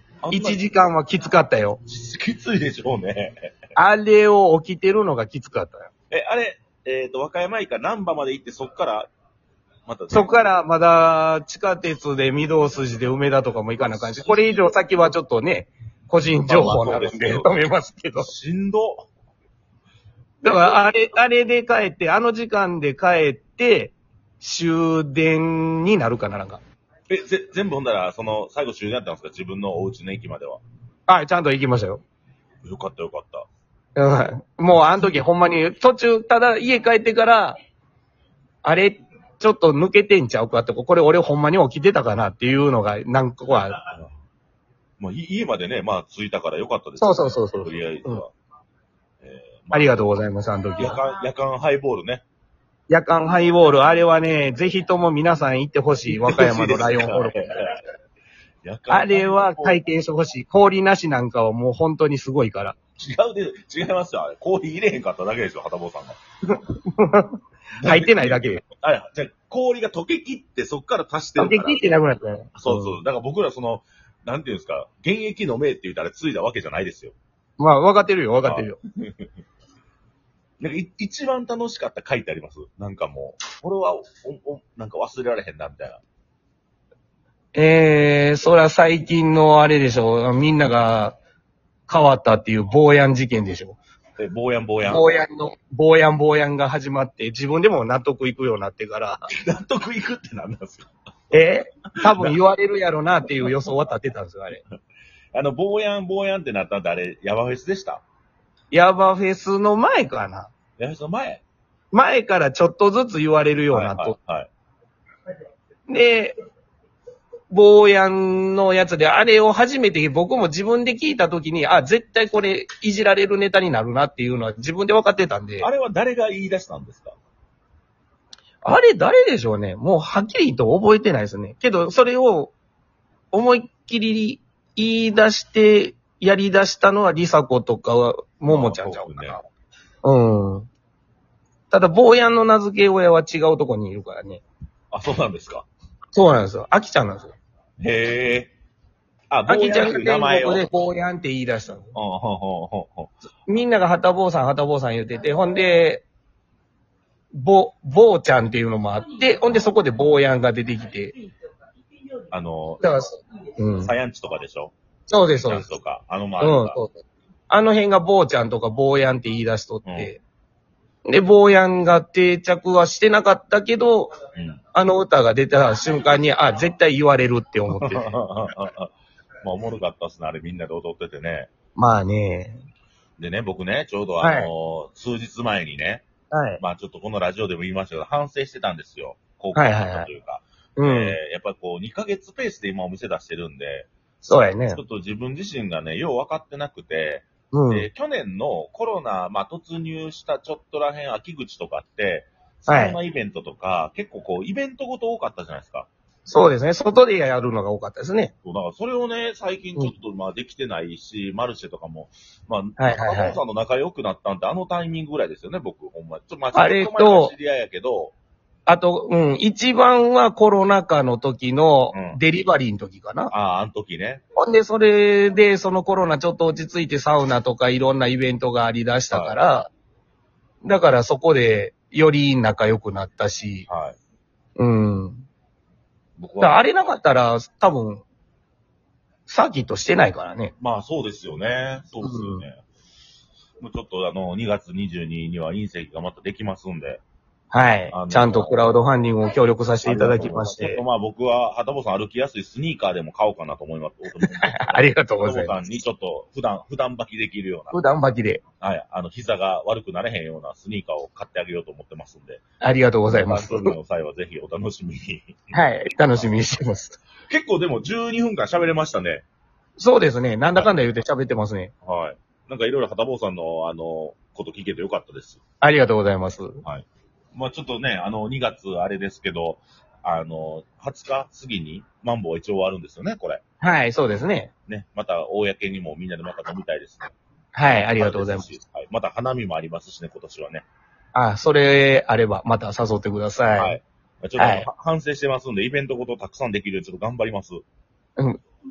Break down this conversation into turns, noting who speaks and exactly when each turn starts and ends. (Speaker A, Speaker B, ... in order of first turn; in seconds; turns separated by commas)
Speaker A: 0.2-0.6, Speaker B: 0.3-1.8, Speaker A: 1.8-3.6, Speaker B: 3.8-5.9, Speaker A: 6.1-9.1, Speaker A: 9.8-10.5, Speaker B: 10.1-18.3, Speaker A: 13.8-14.8, Speaker A: 16.5-17.6, Speaker A: 18.2-19.1, Speaker B: 20.4-26.6, Speaker A: 20.4-21.0, Speaker A: 27.1-30.6, Speaker B: 31.1-32.0, Speaker A: 32.6-33.5, Speaker B: 34.0-37.6, Speaker B: 38.6-43.8, Speaker A: 43.7-44.1, Speaker A: 45.0-48.3, Speaker B: 47.0-48.2, Speaker A: 49.2-50.2, Speaker B: 49.7-51.0, Speaker A: 50.8-52.2, Speaker B: 52.9-57.4, Speaker A: 56.1-57.8, Speaker A: 58.6-59.8, Speaker B: 58.9-62.8, Speaker A: 63.0-66.2, Speaker B: 66.5-68.6, Speaker A: 67.8-71.8, Speaker B: 71.4-73.0, Speaker A: 72.5-77.1, Speaker B: 77.6-78.8, Speaker A: 78.4-79.2, Speaker A: 80.6-86.0, Speaker B: 87.5-91.2, Speaker B: 91.9-93.8, Speaker A: 94.2-95.2, Speaker B: 94.8-99.3, Speaker A: 99.3-100.9, Speaker B: 101.3-104.6, Speaker A: 102.1-102.4, Speaker A: 105.3-108.0, Speaker B: 108.7-110.5, Speaker A: 110.8-111.4, Speaker B: 111.9-114.2, Speaker A: 113.7-114.5, Speaker B: 115.9-116.4, Speaker B: 117.5-125.7, Speaker A: 125.6-127.2, Speaker B: 128.6-132.5, Speaker B: 133.3-139.4, Speaker A: 138.5-139.4, Speaker B: 140.0-140.7, Speaker B: 141.7-144.4, Speaker A: 144.9-145.7, Speaker B: 146.1-147.3, Speaker A: 147.8-148.5, Speaker A: 149.3-150.7, Speaker B: 149.5-151.9, Speaker A: 151.9-153.1, Speaker B: 153.5-156.0, Speaker B: 157.3-161.1, Speaker A: 162.3-162.8, Speaker B: 162.8-163.9, Speaker A: 163.8-164.7, Speaker B: 165.1-165.7, Speaker A: 165.4-166.8, Speaker B: 166.4-170.2, Speaker A: 169.8-170.1, Speaker B: 171.0-174.1, Speaker A: 174.3-174.6, Speaker B: 174.7-178.2, Speaker A: 177.7-181.5, Speaker B: 181.8-182.6, Speaker A: 183.2-186.0, Speaker B: 184.2-184.5, Speaker B: 186.3-186.6, Speaker A: 186.6-193.9, Speaker B: 189.5-190.1, Speaker B: 190.8-191.2, Speaker B: 194.2-194.8, Speaker A: 194.7-205.9, Speaker B: 197.5-197.9, Speaker B: 202.7-203.0, Speaker B: 206.2-208.3, Speaker A: 208.4-218.1, Speaker B: 212.8-213.4, Speaker B: 216.5-217.3, Speaker B: 218.7-223.3, Speaker A: 221.9-222.2, Speaker A: 223.3-224.2, Speaker B: 224.3-229.7, Speaker A: 229.1-229.4, Speaker B: 230.6-233.7, Speaker A: 233.7-234.0, Speaker B: 234.6-235.2, Speaker A: 236.2-237.0, Speaker B: 236.4-238.0, Speaker B: 239.3-240.5, Speaker A: 240.6-242.6, Speaker B: 242.0-242.4, Speaker A: 243.6-247.0, Speaker B: 247.5-250.8, Speaker A: 247.9-248.6, Speaker A: 249.8-257.8, Speaker B: 254.2-255.6, Speaker B: 257.7-258.4, Speaker A: 258.6-262.4, Speaker B: 262.6-263.8, Speaker A: 263.1-265.5, Speaker B: 265.5-267.0, Speaker A: 267.3-269.2, Speaker B: 269.8-271.7, Speaker A: 271.8-275.4, Speaker B: 275.6-276.6, Speaker A: 276.6-283.4, Speaker B: 283.6-284.5, Speaker A: 284.7-287.1, Speaker B: 287.5-288.5, Speaker A: 287.9-290.6, Speaker B: 291.1-293.8, Speaker A: 293.6-297.6, Speaker B: 294.4-294.7